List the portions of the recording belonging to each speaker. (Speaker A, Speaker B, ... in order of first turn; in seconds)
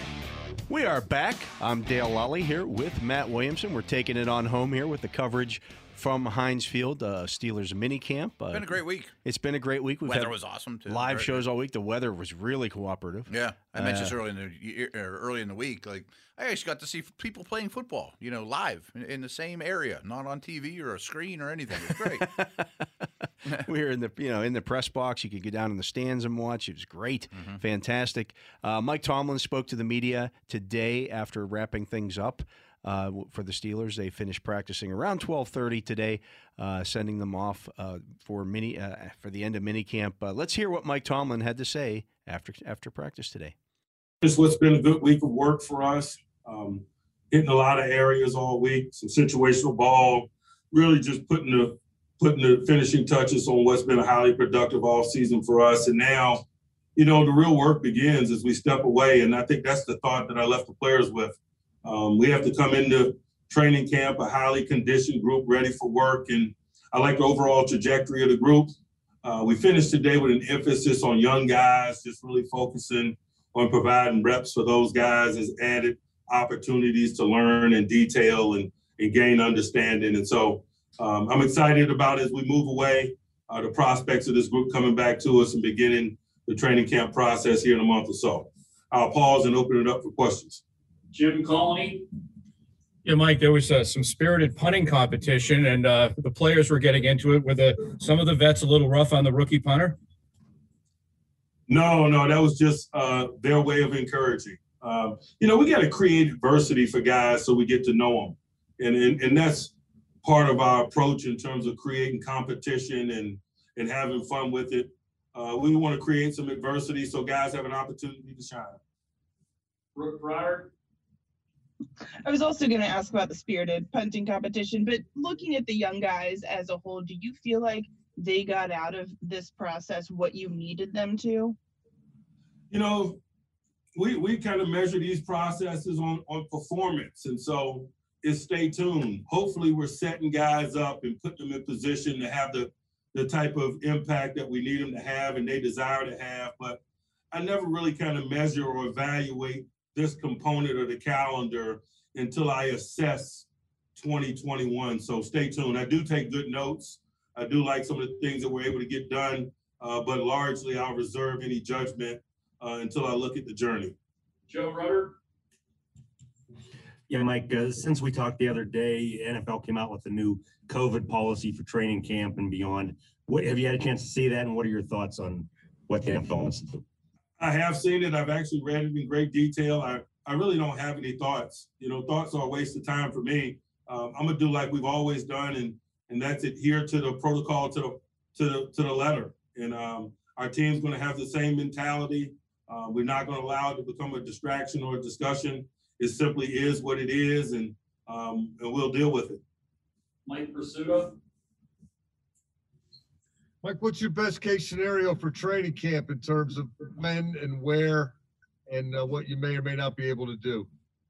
Speaker A: 0.7-14.2, 21.9-22.7, 23.6-43.5
Speaker B: 8.5-9.1, 10.1-11.4, 13.3-22.3, 27.3-27.6
Speaker C: 44.2-56.4, 57.0-90.6, 101.7-118.8, 132.7-133.2, 133.9-146.8, 147.3-163.9, 177.4-199.4
Speaker D: 91.1-92.0, 119.9-120.7, 164.5-165.2, 200.2-201.2
Speaker E: 93.0-100.0
Speaker F: 122.2-131.6
Speaker G: 167.1-176.8
Speaker H: 203.6-208.2, 208.7-210.7